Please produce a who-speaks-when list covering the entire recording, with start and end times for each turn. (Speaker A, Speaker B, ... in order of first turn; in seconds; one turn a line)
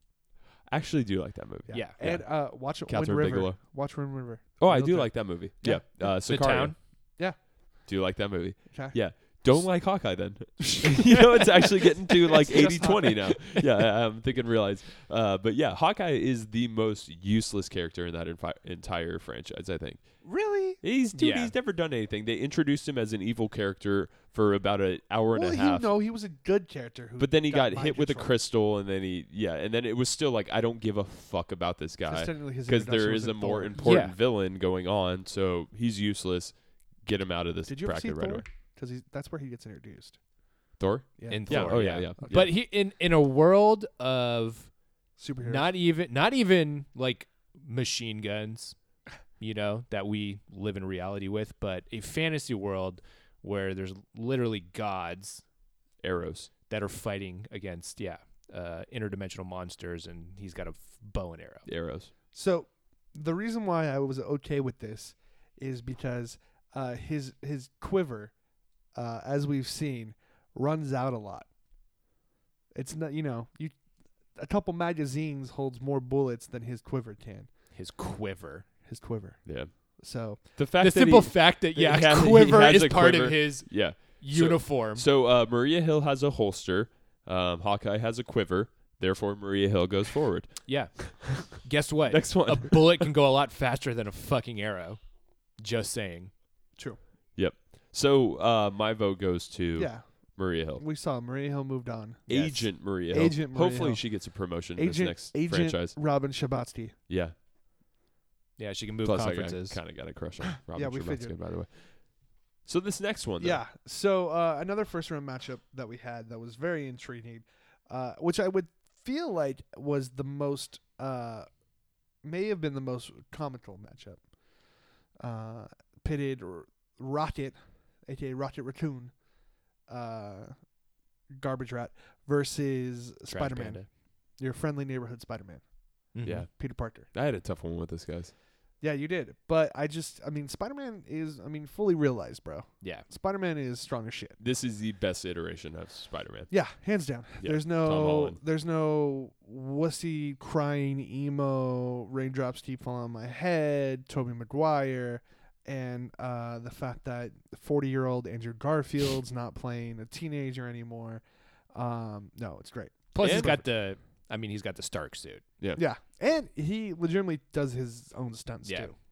Speaker A: 0.7-3.6
Speaker B: 1.7-5.8
Speaker C: 1.7-2.0
Speaker A: 4.6-6.8
Speaker C: 6.2-6.8
Speaker A: 7.8-20.2
Speaker B: 8.7-9.0
Speaker C: 12.3-13.1
Speaker B: 12.4-13.3
Speaker B: 20.2-20.8
Speaker A: 20.8-25.9
Speaker C: 21.1-21.5
Speaker B: 25.3-28.3
Speaker A: 27.2-38.5
Speaker B: 32.0-33.9
Speaker C: 33.8-34.1
Speaker B: 37.7-40.2
Speaker A: 40.8-42.5
Speaker B: 41.2-42.4
Speaker C: 41.3-44.7
Speaker B: 45.2-45.7
Speaker C: 45.4-48.8
Speaker C: 49.4-55.4
Speaker A: 56.0-56.5
Speaker C: 56.7-61.6
Speaker A: 61.6-62.1
Speaker B: 62.3-68.3
Speaker B: 68.9-71.5
Speaker B: 72.7-73.7
Speaker B: 74.3-77.5
Speaker C: 77.7-78.7
Speaker B: 78.8-80.4
Speaker A: 79.4-93.1
Speaker C: 80.8-85.0
Speaker C: 90.7-95.0
Speaker C: 95.6-96.3
Speaker A: 97.3-100.8
Speaker B: 99.8-106.9
Speaker A: 102.3-106.0
Speaker A: 107.1-107.3
Speaker C: 108.6-109.8
Speaker A: 109.0-113.6
Speaker B: 110.7-111.3
Speaker B: 113.4-121.5
Speaker B: 122.2-124.3
Speaker B: 125.2-129.2
Speaker B: 129.9-130.7
Speaker B: 131.3-135.6
Speaker C: 133.3-133.9
Speaker C: 136.1-136.4
Speaker A: 136.2-138.3
Speaker B: 136.5-137.1
Speaker B: 138.8-144.4
Speaker A: 144.4-146.5
Speaker B: 146.5-163.6
Speaker A: 147.4-148.4
Speaker C: 163.1-165.4
Speaker A: 163.2-163.6
Speaker B: 165.7-168.9
Speaker C: 168.6-168.9